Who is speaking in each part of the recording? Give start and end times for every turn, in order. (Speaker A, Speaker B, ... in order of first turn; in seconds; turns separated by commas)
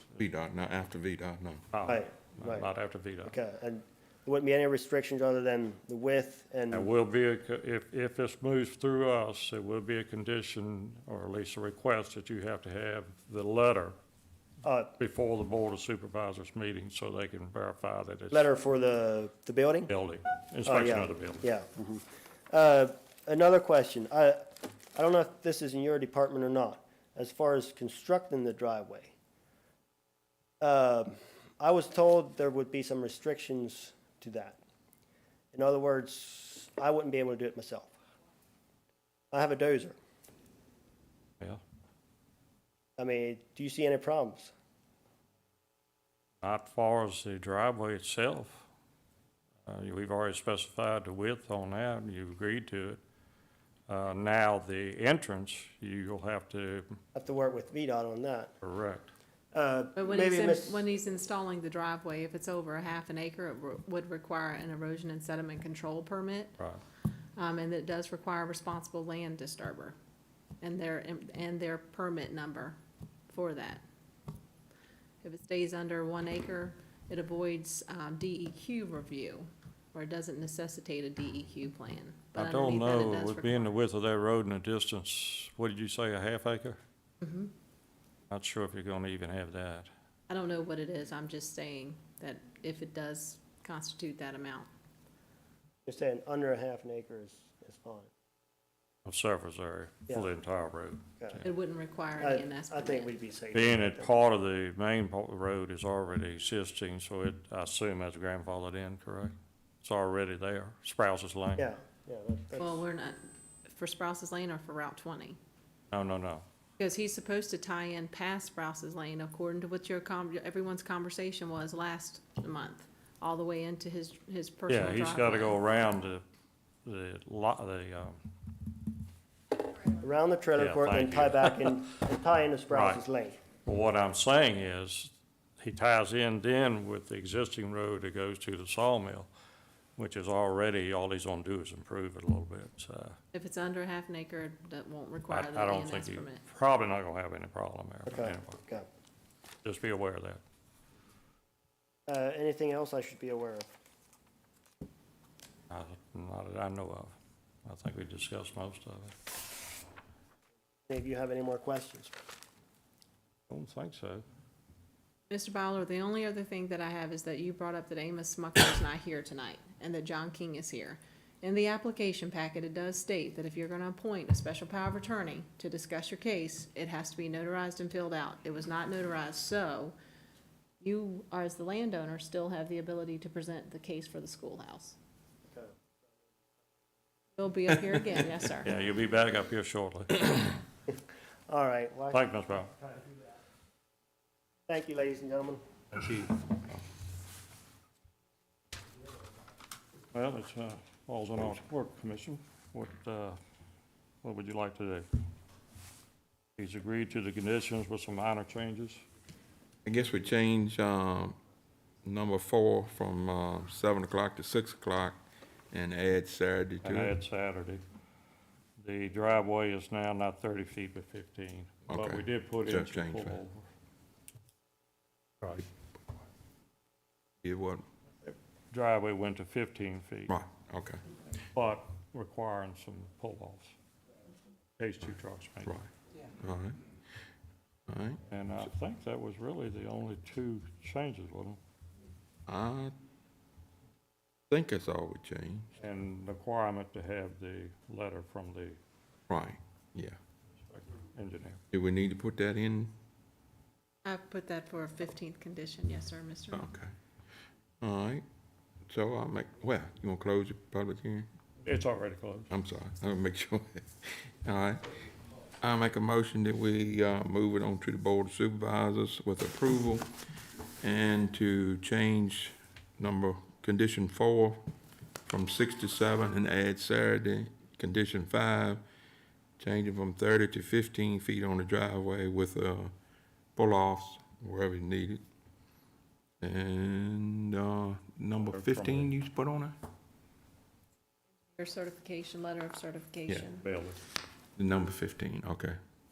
Speaker A: 0.2-1.6, Speaker B: 1.7-3.4, Speaker C: 1.9-2.7, Speaker C: 3.2-6.9, Speaker B: 6.7-14.0, Speaker C: 14.6-14.9, Speaker B: 15.0-18.5, Speaker C: 18.3-19.9, Speaker B: 19.9-21.5, Speaker C: 20.6-29.1, Speaker C: 30.6-34.6, Speaker C: 35.5-38.0, Speaker C: 39.3-40.0, Speaker C: 43.0-44.5, Speaker B: 46.4-48.7, Speaker B: 49.7-53.0, Speaker B: 53.9-57.0, Speaker C: 57.1-58.5, Speaker B: 58.6-59.1, Speaker C: 59.5-60.8, Speaker D: 60.0-66.5, Speaker D: 67.4-70.0, Speaker D: 70.6-72.8, Speaker D: 73.3-73.8, Speaker D: 75.2-83.7, Speaker B: 82.4-86.8, Speaker D: 87.2-87.5, Speaker B: 88.3-89.9, Speaker D: 90.3-94.7, Speaker C: 95.9-98.1, Speaker B: 99.1-101.5, Speaker D: 101.4-103.2, Speaker C: 102.2-104.2, Speaker B: 103.5-111.7, Speaker C: 111.6-112.9, Speaker D: 112.6-115.4, Speaker B: 115.9-116.5, Speaker D: 116.8-125.6, Speaker B: 124.7-126.2, Speaker B: 126.8-128.3, Speaker C: 129.9-133.4, Speaker B: 130.6-131.9, Speaker B: 132.7-133.0, Speaker B: 133.6-139.3, Speaker B: 140.0-143.2, Speaker D: 143.3-146.4, Speaker B: 145.3-148.6, Speaker C: 148.1-148.9, Speaker B: 149.6-150.4, Speaker C: 152.1-153.7, Speaker B: 155.7-159.2, Speaker C: 160.9-162.1, Speaker B: 163.5-164.2, Speaker D: 165.3-179.9, Speaker D: 180.8-185.0, Speaker C: 185.5-186.1, Speaker D: 187.4-188.8, Speaker B: 188.6-190.6, Speaker C: 191.5-192.3, Speaker B: 192.1-192.7, Speaker C: 194.7-195.6, Speaker A: 195.9-196.6, Speaker B: 200.1-203.4, Speaker B: 204.2-205.1, Speaker B: 206.6-209.0, Speaker A: 209.8-211.4, Speaker A: 212.0-215.2, Speaker A: 215.7-217.2, Speaker B: 216.8-217.8, Speaker B: 218.8-223.7, Speaker A: 221.9-223.4, Speaker A: 225.4-225.7, Speaker A: 227.4-227.8, Speaker B: 228.7-230.4, Speaker A: 230.3-231.0, Speaker B: 231.5-233.8, Speaker B: 234.8-235.8, Speaker A: 235.6-236.8, Speaker A: 237.9-238.2, Speaker B: 238.3-241.6, Speaker A: 242.5-242.9, Speaker A: 244.5-245.7, Speaker B: 245.8-248.8, Speaker A: 249.3-250.2, Speaker B: 250.7-251.6, Speaker A: 251.7-252.9, Speaker D: 254.1-256.7, Speaker A: 256.5-256.9, Speaker A: 257.8-258.2, Speaker A: 258.9-261.3, Speaker B: 261.6-262.5, Speaker A: 262.5-264.9, Speaker A: 265.6-270.1, Speaker A: 270.8-274.6, Speaker A: 275.2-278.8, Speaker A: 279.6-282.9, Speaker A: 283.6-285.2, Speaker A: 286.4-289.8, Speaker B: 288.5-289.1, Speaker D: 291.6-293.7, Speaker B: 293.6-294.0, Speaker A: 294.6-295.8